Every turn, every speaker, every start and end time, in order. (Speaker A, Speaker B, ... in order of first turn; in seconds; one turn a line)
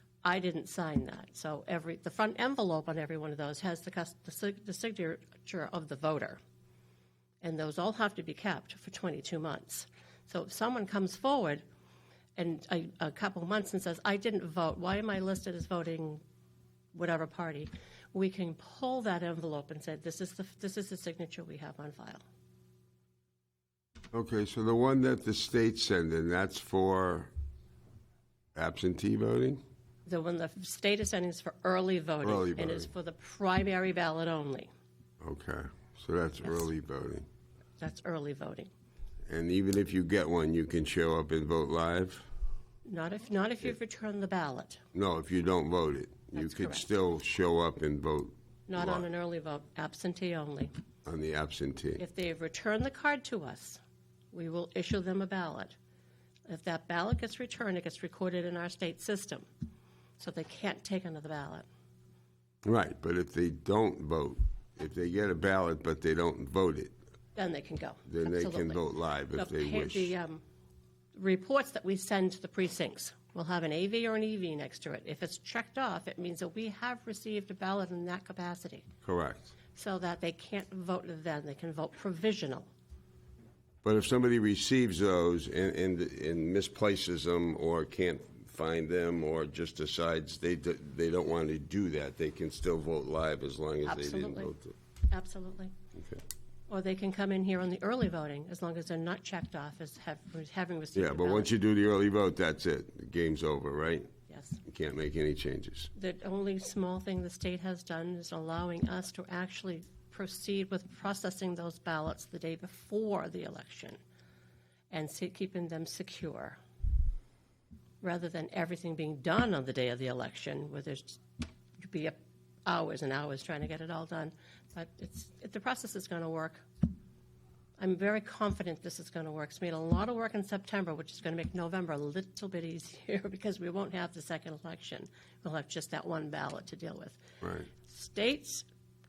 Speaker A: 0.2-6.4
Speaker A: 7.4-11.6
Speaker A: 12.4-16.2
Speaker A: 16.9-22.2
Speaker B: 24.1-27.3
Speaker B: 28.5-29.6
Speaker A: 30.1-34.7
Speaker B: 32.2-32.9
Speaker B: 35.2-37.2
Speaker A: 37.8-38.7
Speaker B: 39.3-42.3
Speaker A: 42.9-44.8
Speaker B: 44.9-49.0
Speaker A: 46.4-46.9
Speaker A: 48.7-50.7
Speaker B: 51.0-52.0
Speaker A: 52.0-53.8
Speaker A: 54.3-55.8
Speaker A: 56.5-59.5
Speaker A: 60.2-61.6
Speaker B: 62.6-66.9
Speaker A: 67.3-68.8
Speaker B: 68.1-70.1
Speaker A: 69.3-70.4
Speaker A: 71.1-78.9
Speaker B: 79.0-79.5
Speaker A: 79.7-82.7
Speaker B: 83.8-94.7
Speaker A: 93.8-94.5
Speaker A: 95.1-95.7
Speaker B: 95.9-96.2
Speaker A: 96.7-101.5
Speaker B: 100.9-104.1
Speaker A: 104.3-104.6
Speaker B: 104.6-105.9
Speaker A: 105.9-114.0
Speaker A: 114.9-116.6
Speaker A: 118.0-121.2
Speaker A: 121.8-126.6
Speaker A: 127.8-137.2
Speaker B: 137.4-137.7
Speaker A: 137.7-138.7